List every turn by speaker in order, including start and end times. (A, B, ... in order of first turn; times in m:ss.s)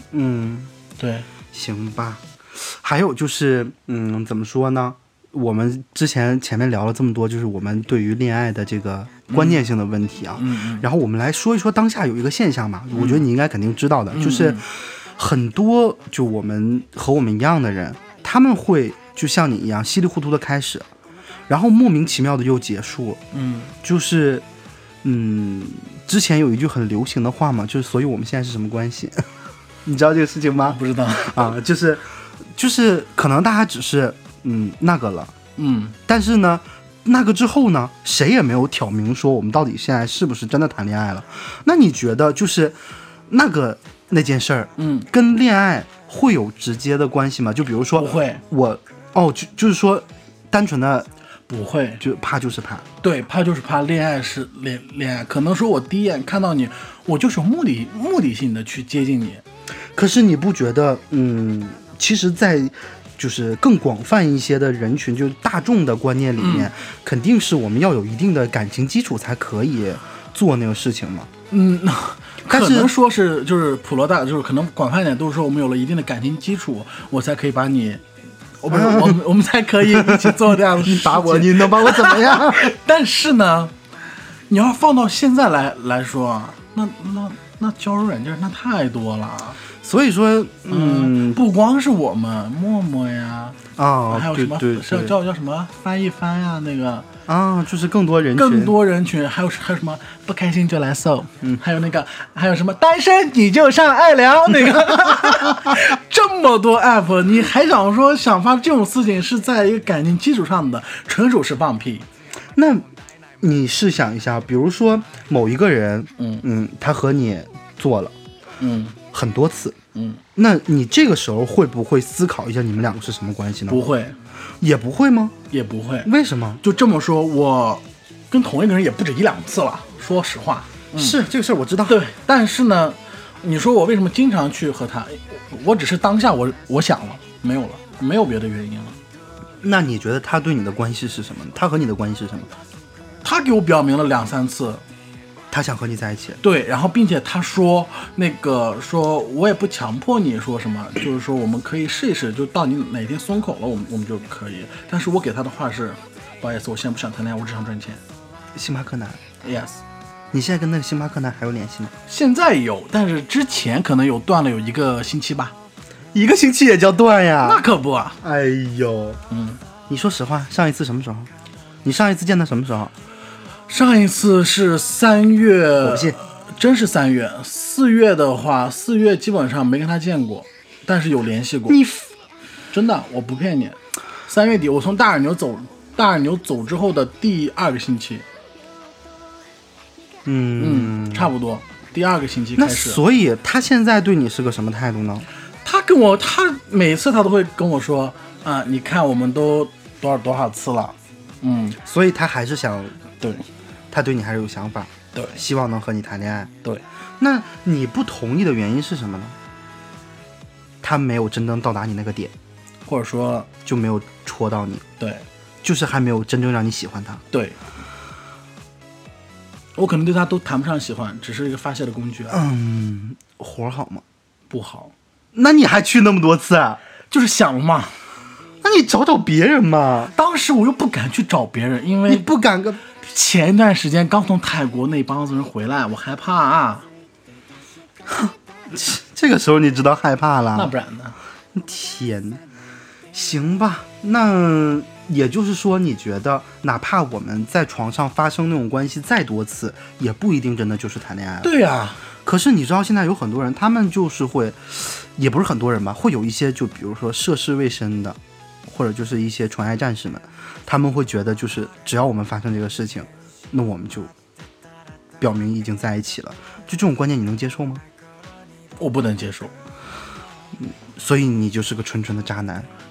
0:00.1-0:00.7 A
0:01.0-0:01.3 B
0:01.5-0:20.9 A
0:09.3-0:09.6 B
0:10.4-0:10.9 B
0:13.0-0:13.2 B
0:14.1-0:14.6 B
0:21.5-0:23.2 A
0:23.3-0:23.7 B
0:23.8-0:24.4 A
0:25.0-0:29.3 A
0:29.8-0:35.3 A
0:30.6-0:31.5 B
0:35.6-0:36.0 B
0:36.1-0:51.1 A
0:44.8-0:45.1 B
0:48.0-0:48.4 B
0:51.5-0:52.0 B
0:52.0-0:52.9 A
0:53.0-0:59.4 B
1:00.0-1:11.3 A
1:06.4-1:06.7 B
1:11.5-1:18.0 B
1:12.5-1:12.9 A
1:18.6-1:23.8 B
1:18.7-1:19.2 A
1:19.8-1:22.7 A
1:24.5-1:29.6 B
1:29.8-1:31.4 A
1:30.7-1:37.1 B
1:33.8-1:35.2 A
1:37.3-1:38.7 A
1:38.4-1:52.1 B
1:52.6-1:52.9 A
1:53.4-1:58.1 A
1:56.2-1:56.4 B
1:58.6-1:59.0 B
1:59.1-1:59.8 A
1:59.9-2:00.2 B
2:00.4-2:03.8 A
2:03.7-2:04.2 B
2:04.6-2:05.4 A
2:05.5-2:06.1 B
2:06.0-2:06.6 A
2:06.6-2:11.2 B
2:11.0-2:12.0 A
2:11.9-2:19.0 B
2:19.6-2:22.5 A
2:23.2-2:24.8 B
2:25.5-2:26.4 A
2:26.4-2:38.0 B
2:38.5-2:39.2 A
2:39.4-2:39.8 B
2:40.3-2:41.9 A
2:42.1-2:45.5 B
2:46.1-2:47.6 A
2:47.4-2:48.2 B
2:48.2-2:49.2 A
2:49.3-2:49.6 B
2:49.9-2:51.3 A
2:51.8-2:52.9 A
2:53.7-3:01.8 B
2:55.8-2:56.2 A
3:01.7-3:02.1 A
3:02.7-3:08.3 B
3:10.2-3:11.3 A
3:10.6-3:13.0 B
3:12.6-3:15.3 A
3:15.6-3:21.8 B
3:21.8-3:23.0 A
3:23.2-3:23.4 B
3:23.9-3:26.5 A
3:25.2-3:25.4 B
3:27.2-3:29.4 A
3:30.8-3:32.3 A
3:32.9-3:33.5 B
3:33.6-3:34.8 A
3:35.0-3:35.2 B
3:35.6-3:37.2 A
3:37.3-3:37.6 B
3:39.8-3:42.4 B
3:42.3-3:44.0 A
3:44.5-3:44.9 B
3:45.3-3:46.8 A
3:47.1-3:47.9 B
3:48.6-3:50.1 A
3:50.1-3:52.3 B
3:52.1-3:52.8 A
3:53.0-3:56.9 B
3:58.1-4:00.7 A
4:00.6-4:01.2 B
4:01.5-4:02.4 A
4:03.1-4:11.5 A
4:11.4-4:12.0 B
4:12.2-4:24.1 A
4:25.2-4:27.8 A
4:28.8-4:29.5 B
4:30.6-4:32.7 A